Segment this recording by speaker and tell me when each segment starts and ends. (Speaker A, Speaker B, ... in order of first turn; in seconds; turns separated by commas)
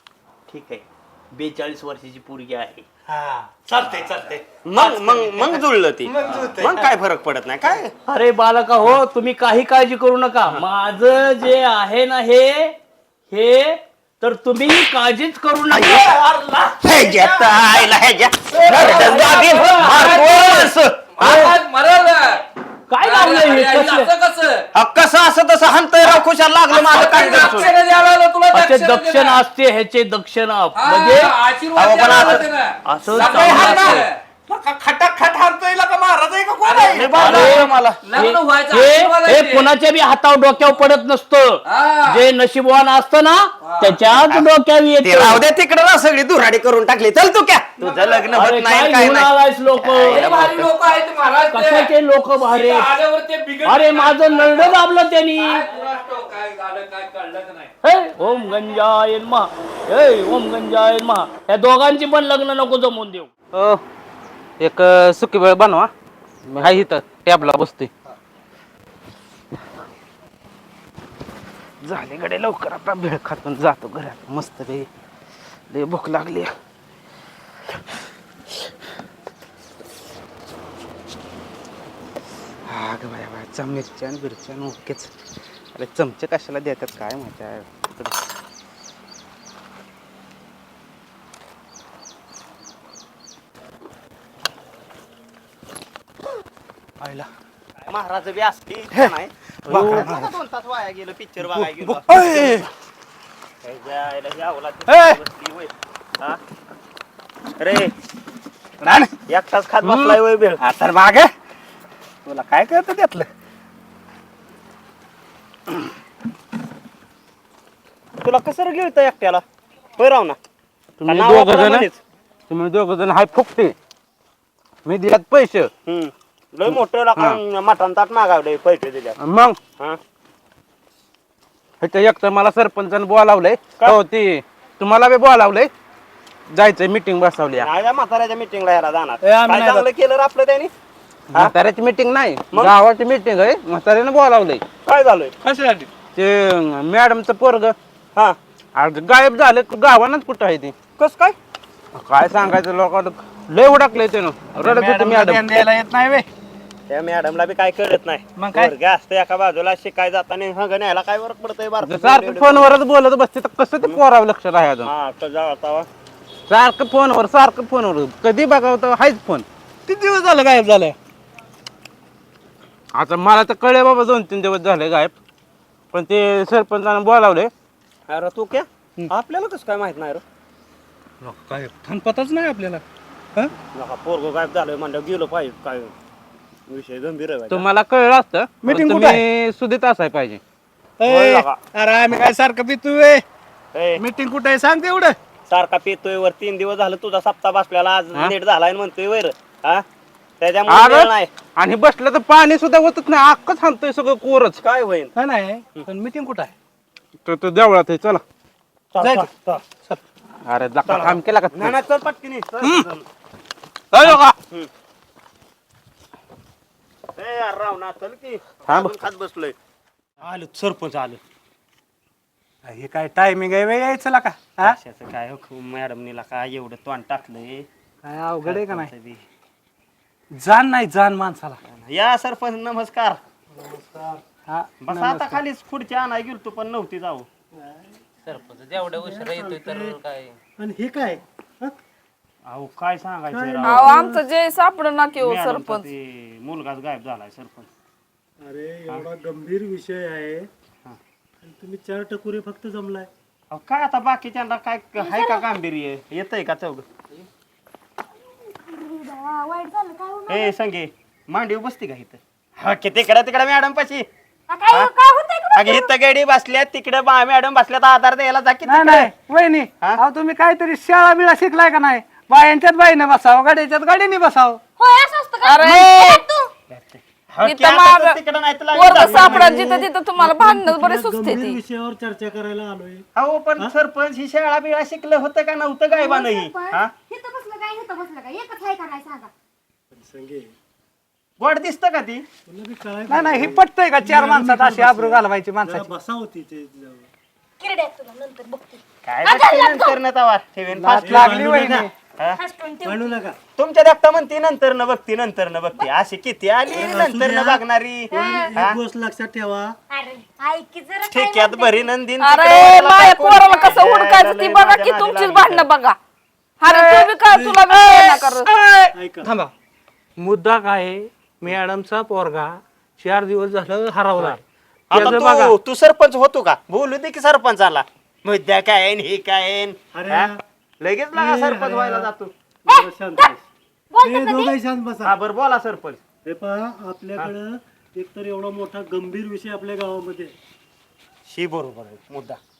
Speaker A: 0.5-2.9, Speaker B: 3.1-6.9, Speaker C: 4.6-7.9, Speaker A: 8.1-12.8, Speaker A: 13.3-16.2, Speaker C: 15.8-16.1, Speaker B: 16.1-17.6, Speaker C: 16.8-21.2, Speaker A: 18.7-20.3, Speaker D: 18.7-22.4, Speaker A: 21.2-21.5, Speaker A: 22.9-24.1, Speaker D: 23.0-24.7, Speaker C: 24.7-27.7, Speaker D: 26.7-29.4, Speaker A: 28.5-31.3, Speaker D: 30.8-34.2, Speaker C: 31.8-32.5, Speaker A: 32.9-34.0, Speaker B: 33.4-34.0, Speaker C: 33.5-34.0, Speaker B: 34.5-37.1, Speaker D: 36.6-39.7, Speaker C: 36.9-38.0, Speaker A: 37.1-45.5, Speaker D: 41.6-42.2, Speaker D: 43.6-44.0, Speaker C: 45.0-50.6, Speaker D: 47.8-48.3, Speaker A: 48.3-50.7, Speaker D: 50.0-51.9, Speaker A: 51.5-52.9, Speaker D: 52.4-54.8, Speaker A: 53.6-55.6, Speaker D: 55.4-57.7, Speaker A: 57.8-63.3, Speaker E: 63.5-63.8, Speaker E: 64.6-65.9, Speaker E: 66.5-67.9, Speaker E: 71.8-74.9, Speaker E: 75.7-76.5, Speaker E: 82.7-85.1, Speaker E: 85.7-88.2, Speaker B: 97.0-97.3, Speaker C: 97.9-102.7, Speaker B: 99.6-100.3, Speaker B: 101.4-102.7, Speaker C: 103.6-106.4, Speaker B: 104.8-105.2, Speaker C: 107.6-107.9, Speaker B: 108.8-109.1, Speaker C: 109.3-110.6, Speaker B: 110.6-111.3, Speaker B: 112.2-113.3, Speaker C: 118.2-119.4, Speaker C: 120.0-120.4, Speaker E: 121.0-121.9, Speaker C: 121.0-122.0, Speaker E: 122.5-123.7, Speaker E: 124.8-125.7, Speaker C: 125.8-129.2, Speaker E: 129.2-129.6, Speaker E: 131.8-135.7, Speaker E: 136.5-137.7, Speaker C: 137.6-140.7, Speaker B: 139.2-139.9, Speaker E: 141.3-144.6, Speaker C: 144.8-145.3, Speaker B: 145.4-145.9, Speaker E: 146.2-147.8, Speaker E: 148.8-150.7, Speaker C: 151.0-151.3, Speaker E: 151.9-155.6, Speaker B: 154.5-156.3, Speaker C: 156.9-162.7, Speaker B: 158.3-158.7, Speaker E: 161.8-164.9, Speaker C: 164.8-165.9, Speaker E: 166.5-169.4, Speaker B: 169.9-170.9, Speaker E: 172.9-175.1, Speaker E: 175.9-177.5, Speaker C: 178.1-180.2, Speaker B: 181.2-182.8, Speaker C: 183.6-185.9, Speaker C: 186.7-187.7, Speaker E: 187.5-190.4, Speaker B: 188.6-189.2, Speaker B: 191.0-193.2, Speaker C: 191.1-191.6, Speaker C: 193.7-194.0, Speaker B: 194.0-195.2, Speaker C: 195.5-199.8, Speaker C: 200.4-201.3, Speaker E: 200.7-204.6, Speaker C: 204.6-205.1, Speaker B: 205.2-206.5, Speaker E: 207.2-208.2, Speaker C: 208.9-209.3, Speaker B: 208.9-210.0, Speaker E: 210.4-211.8, Speaker C: 210.8-213.0, Speaker E: 213.9-214.3, Speaker C: 214.0-214.7, Speaker C: 217.2-219.5, Speaker E: 218.7-218.9, Speaker C: 220.2-221.2, Speaker B: 222.6-224.8, Speaker C: 224.6-227.7, Speaker B: 228.0-228.9, Speaker C: 228.4-229.2, Speaker B: 230.3-231.6, Speaker C: 231.6-233.2, Speaker F: 233.5-234.2, Speaker B: 234.5-235.4, Speaker C: 234.8-237.3, Speaker F: 237.5-240.0, Speaker E: 238.5-240.2, Speaker F: 240.6-241.8, Speaker C: 242.4-243.9, Speaker F: 243.3-244.2, Speaker G: 243.6-245.8, Speaker C: 245.2-247.7, Speaker F: 248.4-250.5, Speaker F: 251.4-253.1, Speaker C: 253.5-256.9, Speaker H: 255.0-255.5, Speaker H: 258.4-260.5, Speaker C: 260.3-264.1, Speaker H: 264.5-265.9, Speaker C: 265.5-269.1, Speaker B: 268.6-274.6, Speaker H: 274.8-276.5, Speaker G: 275.4-276.2, Speaker C: 276.7-279.7, Speaker G: 277.4-278.2, Speaker G: 278.7-281.6, Speaker F: 278.8-283.1, Speaker C: 283.1-286.9, Speaker H: 285.9-289.3, Speaker F: 289.9-290.5, Speaker C: 291.4-292.2, Speaker F: 292.4-297.1, Speaker B: 293.1-295.9, Speaker H: 297.6-300.0, Speaker C: 299.0-301.4, Speaker B: 300.7-301.9, Speaker F: 301.0-301.9, Speaker H: 302.4-303.1, Speaker F: 302.8-303.4, Speaker C: 303.6-308.8, Speaker F: 306.7-309.8, Speaker H: 308.1-308.5, Speaker H: 309.9-311.9, Speaker C: 311.1-315.7, Speaker G: 312.2-316.0, Speaker G: 316.6-318.5, Speaker B: 316.7-319.5, Speaker F: 318.9-319.3, Speaker B: 320.2-325.5, Speaker C: 324.9-332.3, Speaker F: 329.9-330.4, Speaker F: 331.1-332.1, Speaker H: 332.6-333.3, Speaker F: 332.6-333.4, Speaker H: 333.9-334.6, Speaker F: 334.0-335.1, Speaker C: 335.0-336.0, Speaker F: 336.2-340.3, Speaker C: 341.3-342.4